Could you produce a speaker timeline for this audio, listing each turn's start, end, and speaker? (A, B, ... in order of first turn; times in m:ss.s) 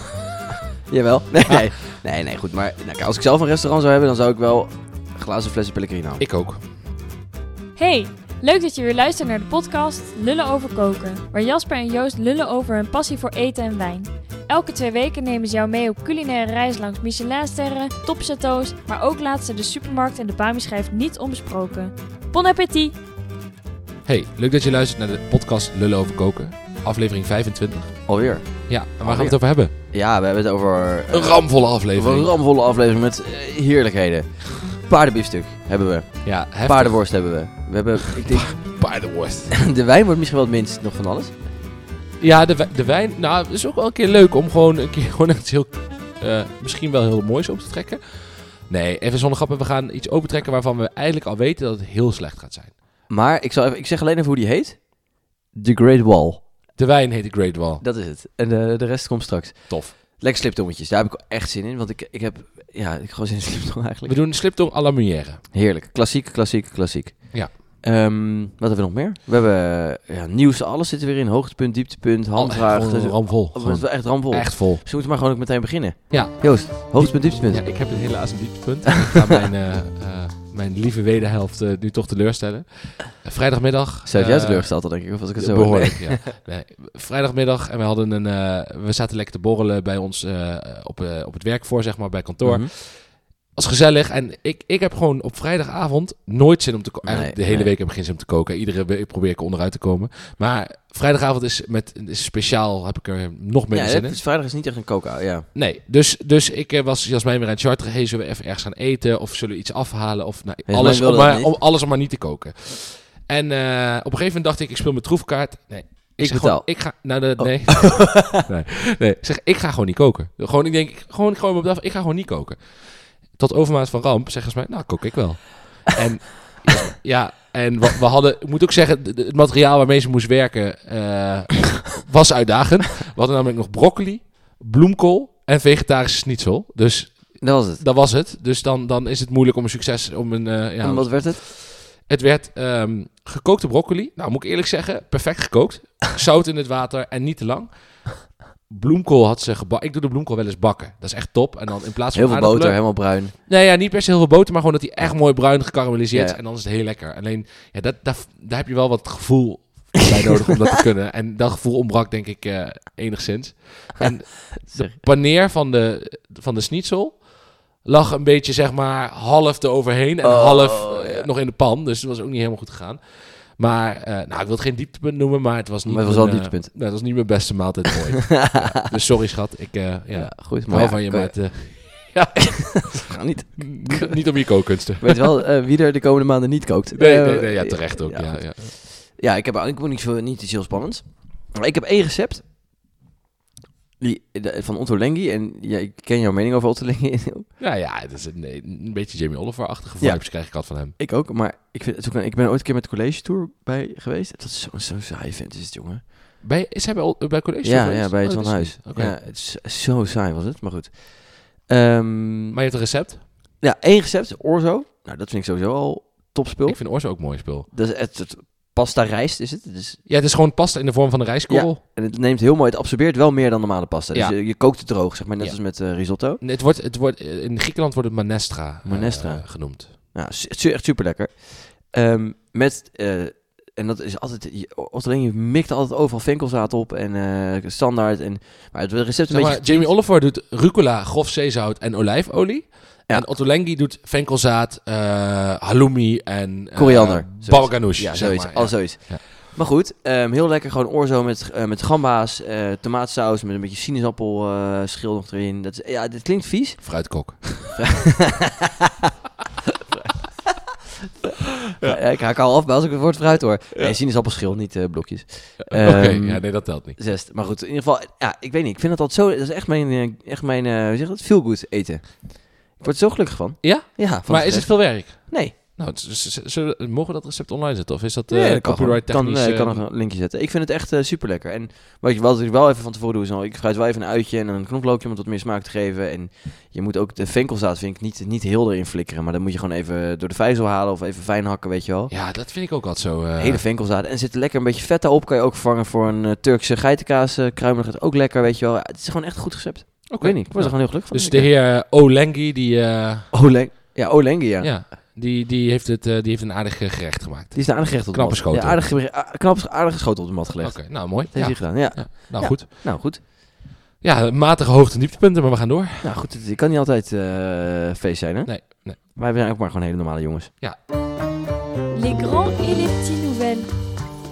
0:00.9-0:06.2 A
0:06.2-0:06.6 B
0:07.8-0:23.0 C
0:24.1-0:28.1 B
0:28.1-0:38.8 A
0:28.7-0:29.7 B
0:31.1-0:32.3 B
0:36.2-0:37.1 B
0:38.3-0:39.5 B
0:39.5-0:41.3 A
0:42.2-0:52.8 B
0:53.1-0:54.8 A
0:55.5-0:56.4 A
0:56.8-0:57.8 B
0:57.8-1:04.2 A
0:59.7-1:00.0 B
1:04.1-1:05.4 B
1:05.5-1:17.6 A
1:12.4-1:14.8 B
1:16.1-1:44.2 B
1:24.0-1:26.3 A
1:32.4-1:32.7 A
1:37.0-1:37.7 A
1:43.7-1:45.5 A
1:45.5-3:05.3 B
1:50.7-1:51.5 A
1:56.2-1:58.5 A
2:17.4-2:17.8 A
2:20.8-2:21.4 A
2:32.1-2:33.3 A
2:36.1-2:36.4 A
2:44.6-2:45.0 A
2:50.2-2:51.3 A
2:55.9-2:56.7 A
2:58.3-2:58.7 A
3:00.1-3:01.4 A
3:02.5-3:04.2 A
3:05.0-3:12.4 A
3:07.0-3:08.8 B
3:14.0-3:17.5 A
3:17.6-3:21.0 B
3:20.0-3:20.3 A
3:21.0-3:26.0 A
3:26.4-3:29.1 B
3:27.6-3:32.6 A
3:32.5-3:33.2 B
3:33.6-3:37.0 A
3:36.7-3:37.7 B
3:37.7-3:40.0 A
3:40.1-3:41.8 B
3:41.5-3:46.4 A
3:46.4-3:50.0 B
3:48.8-3:59.9 A
3:59.3-4:09.2 B
4:06.8-4:16.9 A
4:16.8-4:17.8 B
4:17.8-4:19.1 A
4:19.9-4:20.6 A
4:21.2-4:35.6 A
4:21.7-4:22.0 B
4:25.6-4:27.0 B
4:33.6-4:39.8 B
4:38.3-4:52.1 A
4:52.1-4:53.6 B
4:53.4-5:01.5 A
5:00.1-5:03.3 B
5:03.3-5:04.8 A
5:04.6-5:08.8 B
5:07.5-5:13.2 A
5:10.6-5:13.3 B
5:14.0-5:16.1 B
5:16.0-5:20.5 A
5:18.4-5:19.0 B
5:21.9-5:23.7 C